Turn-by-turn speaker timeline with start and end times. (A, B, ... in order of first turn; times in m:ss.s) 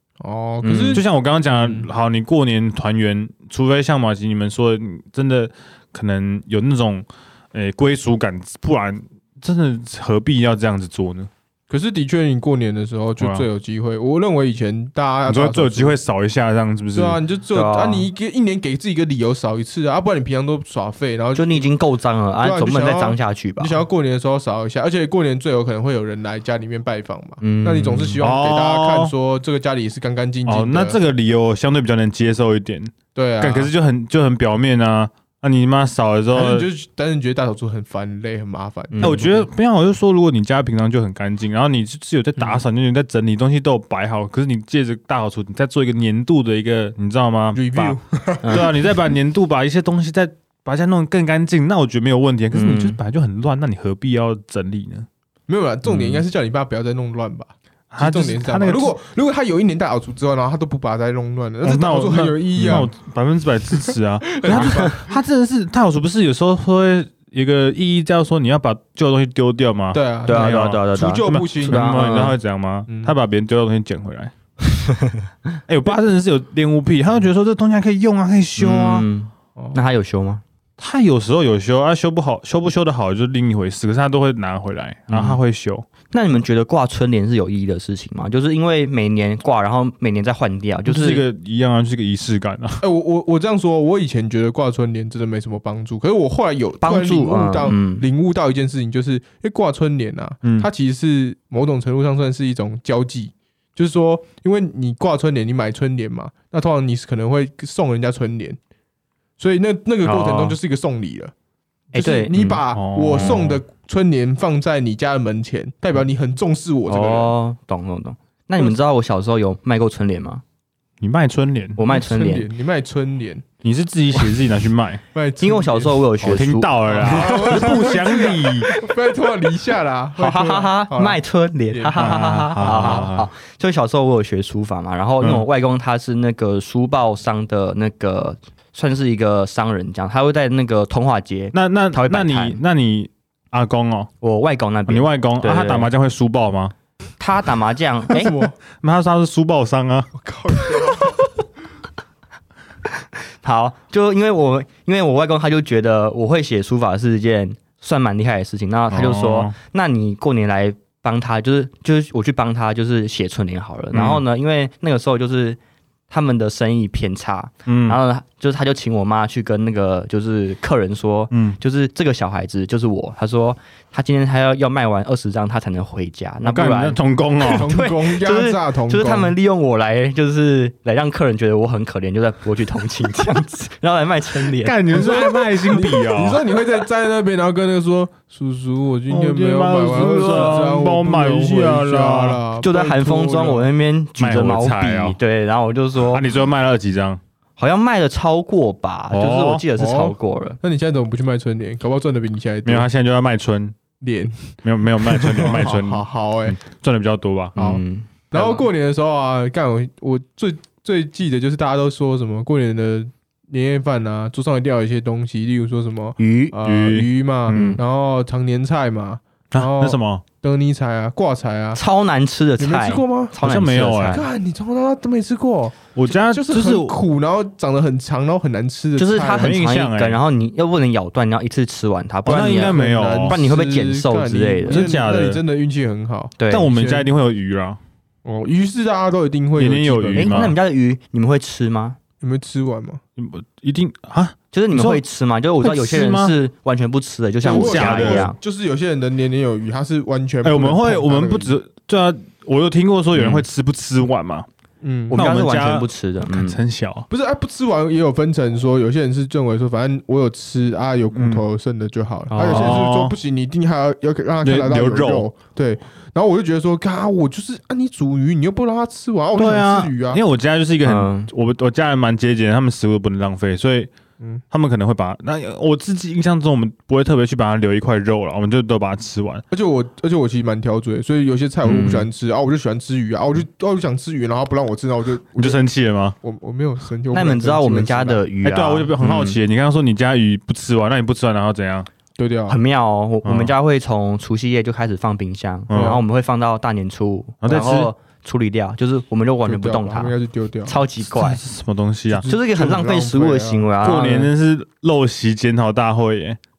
0:00.2-0:01.9 A
0:00.6-0:01.0 B
0:00.9-0:11.3 C
0:11.7-0:16.0 A
0:13.2-0:13.5 C
0:15.3-0:17.2 C
0:16.9-0:21.7 A
0:17.5-0:18.1 B
0:21.4-0:23.8 B
0:22.4-0:31.0 A
0:27.4-0:28.2 B
0:28.2-0:29.1 C
0:30.5-0:36.7 C
0:33.2-0:33.7 A
0:36.3-0:39.3 A
0:38.9-0:39.5 B
0:39.0-0:48.0 C
0:47.5-0:48.9 A
0:48.5-0:55.1 C
0:52.5-0:53.0 B
0:55.5-1:02.9 A
0:55.9-0:56.2 B
0:57.9-0:59.0 C
1:01.6-1:14.3 C
1:02.6-1:02.8 B
1:03.8-1:05.1 A
1:04.5-1:05.0 B
1:09.9-1:12.0 A
1:10.3-1:12.4 B
1:12.9-1:13.2 A
1:14.9-1:15.2 B
1:15.7-1:19.1 C
1:18.6-1:20.4 B
1:19.6-1:19.8 A
1:20.8-1:25.9 C
1:25.1-1:25.4 B
1:26.1-1:31.2 B
1:30.9-1:32.8 C
1:32.8-1:48.6 A
1:36.8-1:38.0 B
1:49.4-1:51.3 A
1:50.0-1:50.6 C
1:51.9-1:52.6 B
1:51.9-1:57.3 A
1:52.7-1:53.6 C
1:56.9-2:00.4 B
2:01.0-2:01.8 C
2:01.8-2:02.5 B
2:01.9-2:03.4 A
2:03.6-2:05.0 C
2:05.1-2:06.0 A
2:05.4-2:07.8 B
2:06.2-2:08.7 C
2:06.9-2:11.2 A
2:08.6-2:08.9 B
2:10.2-2:22.6 B
2:11.7-2:13.1 A
2:12.0-2:13.3 C
2:15.2-2:15.5 C
2:21.5-2:24.1 C
2:24.2-2:25.9 B
2:24.9-2:26.7 C
2:27.2-2:28.4 B
2:28.1-2:28.6 A
2:28.8-2:30.1 C
2:30.1-2:31.2 A
2:33.4-2:45.6 B
2:38.9-2:39.6 C
2:43.9-2:44.2 C
2:46.1-3:04.9 B
2:47.7-2:48.0 C
2:51.3-2:51.6 C
2:56.4-2:57.7 C
2:57.5-2:59.4 A
3:04.6-3:06.4 C
3:04.9-3:13.7 A
3:09.1-3:12.4 C
3:09.9-3:10.7 B
3:12.6-3:16.3 B
3:14.2-3:15.2 C
3:16.0-3:17.2 C
3:17.6-3:20.6 B
3:19.1-3:19.6 C
3:19.8-3:22.9 A
3:22.6-3:23.8 C
3:24.0-3:26.6 A
3:24.6-3:26.1 C
3:26.6-3:27.6 C
3:27.6-3:28.7 B
3:27.6-3:41.8 A
3:36.2-3:36.6 B
3:36.6-3:37.8 C
3:37.5-3:37.8 B
3:39.5-3:40.2 C
3:41.8-3:44.3 B
3:42.6-3:43.4 A
3:43.4-3:44.3 C
3:44.1-3:49.6 A
3:46.0-3:47.0 C
3:49.0-3:54.9 B
3:49.3-3:50.2 C
3:52.3-3:53.4 C
3:52.4-3:57.1 A
3:54.6-3:55.4 C
3:56.4-3:56.7 B
3:56.5-3:57.8 C
3:58.2-4:00.4 A
3:59.6-4:00.6 C
4:00.1-4:02.0 B
4:02.2-4:03.0 A
4:03.2-4:05.0 C
4:04.5-4:08.4 B
4:05.6-4:06.4 C
4:07.4-4:11.5 A
4:07.4-4:08.3 C
4:10.4-4:14.5 C
4:13.1-4:13.4 B
4:14.8-4:15.2 A
4:15.1-4:16.6 B
4:15.1-4:17.1 C
4:17.1-4:30.2 A
4:21.1-4:21.4 C
4:22.3-4:22.8 B
4:22.4-4:23.2 C
4:24.4-4:25.3 C
4:29.4-4:33.9 C
4:30.8-4:31.3 B
4:34.5-4:39.4 C
4:39.5-4:45.6 A
4:41.6-4:42.1 B
4:45.4-4:46.2 C
4:46.2-4:48.3 A
4:47.1-4:49.4 B
4:48.4-4:51.9 C
4:52.2-4:52.6 A
4:52.5-5:00.2 B
4:53.2-4:53.6 C
4:55.7-4:56.0 C
4:55.7-4:56.0 A
4:57.4-4:57.9 C
4:59.4-5:00.8 A
5:00.7-5:01.4 B
5:01.1-5:02.3 C
5:02.1-5:04.2 A
5:02.3-5:04.3 B
5:03.8-5:06.4 C